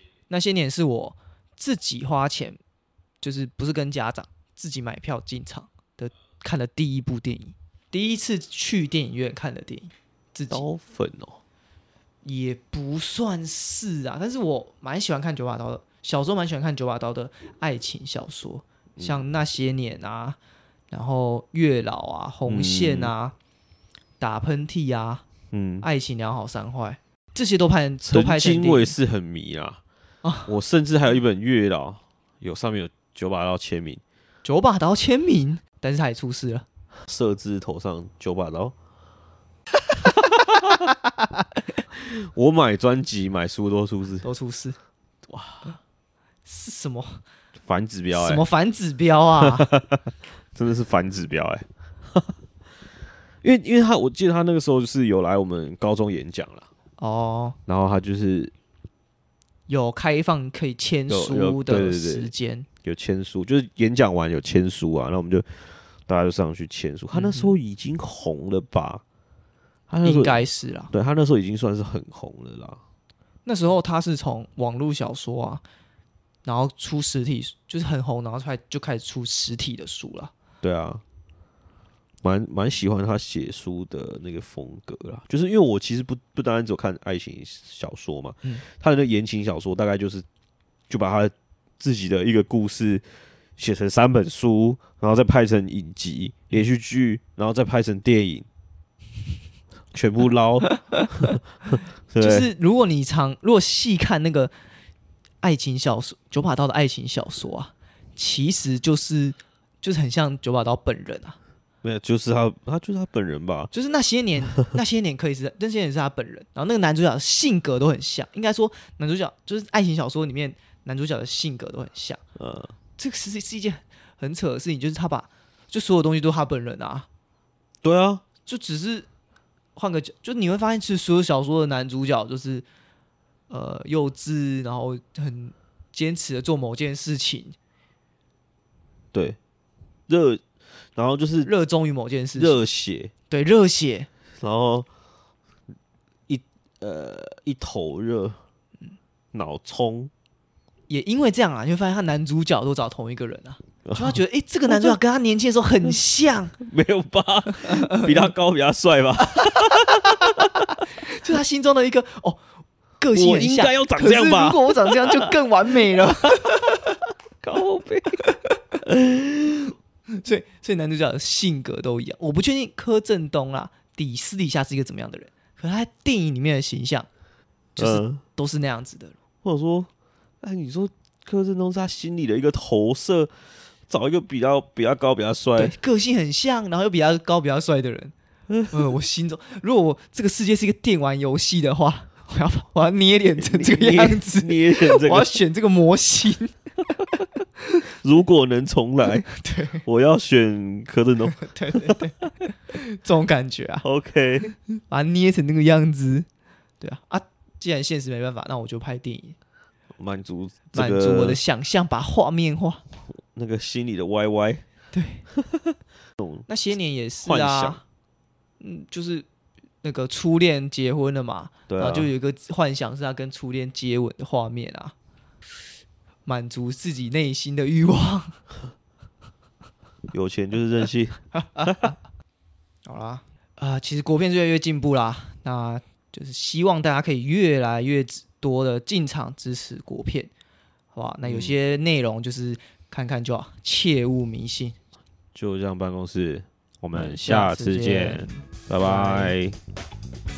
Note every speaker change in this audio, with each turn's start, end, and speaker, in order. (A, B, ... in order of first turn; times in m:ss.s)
0:00.3-0:02.6 A
0:03.2-0:10.6 A
0:10.5-0:11.4 B
0:12.2-0:20.4 A
0:19.0-0:19.2 B
0:20.9-0:23.4 A
0:22.5-0:23.1 B
0:24.2-0:25.2 A
0:25.5-0:25.9 B
0:25.8-0:28.9 A
0:28.0-0:29.8 B
0:30.2-0:30.5 A
0:30.5-0:34.0 B
0:34.4-0:36.6 A
0:37.0-0:38.8 B
0:40.0-0:40.9 B
0:41.9-0:44.3 B
0:44.2-0:44.8 A
0:45.3-0:45.8 B
0:46.4-0:47.2 A
0:47.6-0:48.4 B
0:48.1-0:49.7 A
0:49.4-0:52.3 B
0:53.4-0:56.7 B
0:57.0-0:57.6 A
0:57.7-0:58.5 B
0:59.7-1:02.7 A
1:01.1-1:02.3 B
1:02.8-1:09.0 B
1:07.1-1:07.5 A
1:09.9-1:12.8 B
1:10.0-1:10.9 A
1:13.4-1:15.6 A
1:16.4-1:20.3 A
1:20.6-1:21.0 B
1:22.2-1:30.2 B
1:30.9-1:33.1 B
1:33.6-1:38.5 B
1:39.9-1:41.4 B
1:40.7-1:41.1 A
1:42.1-1:42.5 B
1:42.2-1:44.5 A
1:45.4-1:51.4 A
1:51.8-1:53.7 B
1:53.7-2:02.2 A
2:02.4-2:02.7 B
2:03.0-2:07.1 A
2:07.8-2:08.2 B
2:08.4-2:09.1 A
2:09.8-2:12.7 A
2:13.5-2:17.6 A
2:19.1-2:19.4 B
2:20.1-2:21.5 B
2:21.4-2:22.6 A
2:22.4-2:23.1 B
2:23.3-2:24.1 A
2:24.4-2:24.9 B
2:26.3-2:28.4 B
2:29.3-2:30.1 B
2:30.9-2:36.5 A
2:33.8-2:35.0 B
2:36.6-2:40.7 B
2:41.0-2:42.4 A
2:43.0-2:46.9 A
2:43.1-2:45.3 B
2:47.4-2:48.2 B
2:48.8-2:49.8 B
2:50.2-2:57.1 A
2:57.8-2:58.2 B
2:57.8-2:59.2 A
2:59.4-2:59.9 B
3:00.4-3:03.3 B
3:03.9-3:05.8 B
3:05.6-3:08.1 A
3:08.5-3:08.8 B
3:08.7-3:16.6 A
3:13.4-3:15.4 B
3:17.9-3:19.3 B
3:19.3-3:19.8 A
3:19.8-3:22.0 B
3:21.4-3:23.9 A
3:23.8-3:24.5 B
3:24.8-3:26.3 A
3:26.8-3:29.4 A
3:30.0-3:31.4 B
3:30.7-3:32.8 A
3:33.1-3:34.6 B
3:34.9-3:35.2 A
3:35.3-3:36.5 B
3:36.5-3:37.8 A
3:37.2-3:37.8 B
3:38.6-3:39.3 A
3:39.8-3:44.9 A
3:41.7-3:42.1 B
3:46.3-3:48.4 A
3:50.1-3:51.9 B
3:51.4-3:51.8 A
3:52.9-4:00.3 A
4:00.9-4:04.8 A
4:01.2-4:01.5 B
4:05.4-4:09.6 B
4:07.0-4:09.4 A